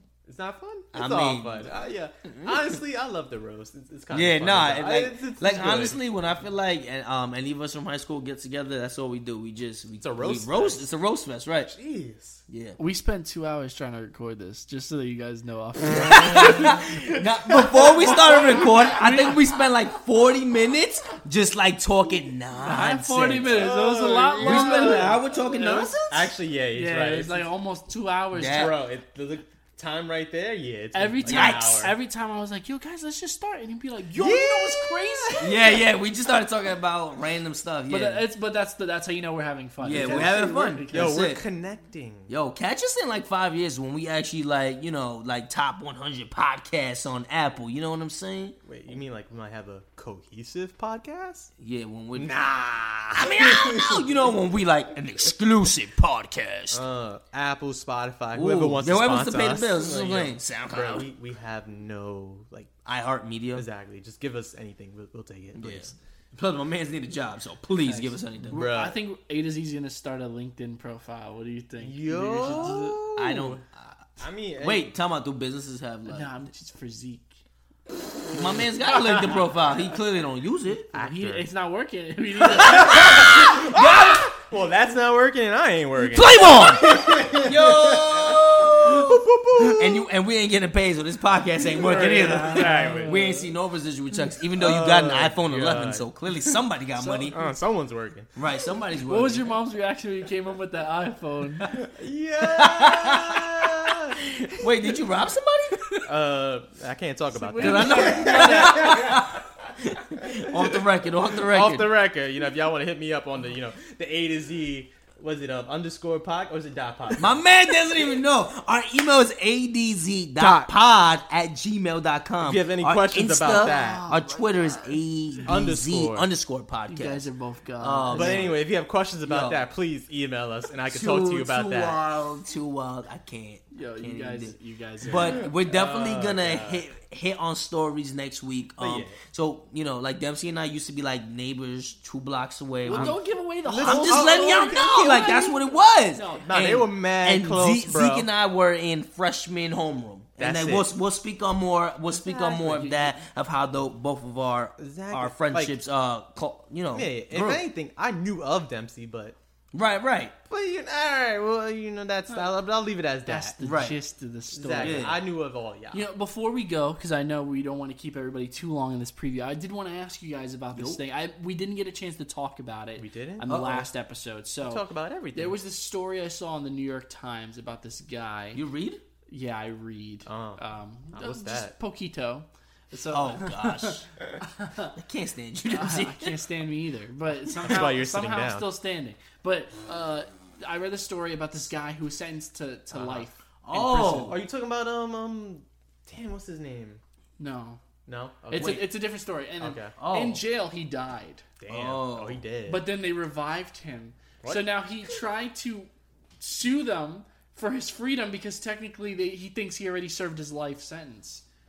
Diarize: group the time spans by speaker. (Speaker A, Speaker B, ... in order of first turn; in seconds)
Speaker A: 0.3-6.0, 10.0-10.9, 11.6-12.4, 16.4-16.8, 17.8-18.9, 23.4-27.5, 28.5-31.9, 34.1-35.4, 39.9-42.3, 48.6-51.5, 52.1-54.3, 56.7-62.7, 63.5-66.0, 68.5-69.0, 71.8-73.6, 74.2-74.9, 80.9-81.5, 82.6-90.1, 91.8-93.4, 94.5-96.1, 97.3-98.3, 101.8-104.2, 106.1-109.4, 110.5-117.4, 120.4-120.7, 122.4-124.0, 125.5-126.3, 128.1-132.0, 135.1-136.9, 138.8-139.2, 142.9-145.2, 146.4-148.3, 150.4-150.9, 152.1-152.9, 154.8-155.8, 156.9-159.4, 160.5-163.6, 164.5-166.0, 173.0-173.6, 174.6-175.6, 180.3-181.8, 187.6-188.7, 192.9-193.3, 194.1-197.0, 198.1-198.9, 199.6-199.9, 201.6-202.9, 204.4-204.8
Speaker B: 0.9-1.7, 2.3-2.8, 4.1-11.7, 12.5-12.8, 15.9-23.7, 24.4-26.3, 28.3-28.8, 31.2-31.9, 35.4-38.3, 39.8-41.5, 42.3-48.6, 51.6-52.3, 53.2-56.8, 58.3-61.1, 62.9-63.7, 65.5-68.7, 72.4-74.0, 74.6-76.4, 78.3-80.9, 82.5-84.3, 86.1-97.3, 98.4-99.5, 102.5-103.4, 104.2-105.8, 107.6-111.9, 117.2-127.3, 127.8-128.6, 129.2-129.7, 130.9-134.6, 135.1-143.2, 143.8-157.7, 159.7-160.3, 163.6-164.0, 164.8-165.2, 170.7-171.0, 173.5-173.9, 178.5-179.0, 183.1-184.1, 184.9-186.5, 193.6-194.4, 198.6-198.8, 200.0-200.4, 201.7-202.4
Speaker C: 12.8-16.9, 17.9-19.5, 22.6-25.2, 26.7-28.8, 30.9-35.8, 37.9-41.2, 67.8-73.0, 76.1-77.3, 80.9-83.5, 91.8-93.5, 97.0-97.6, 99.1-101.8, 107.3-109.2, 123.5-125.5, 126.9-128.5, 133.7-135.5, 142.8-146.5, 152.6-153.1, 163.3-165.2, 165.9-178.6, 179.3-184.9, 185.7-194.4, 197.4-197.8, 198.5-201.4, 202.7-205.9, 206.4-211.4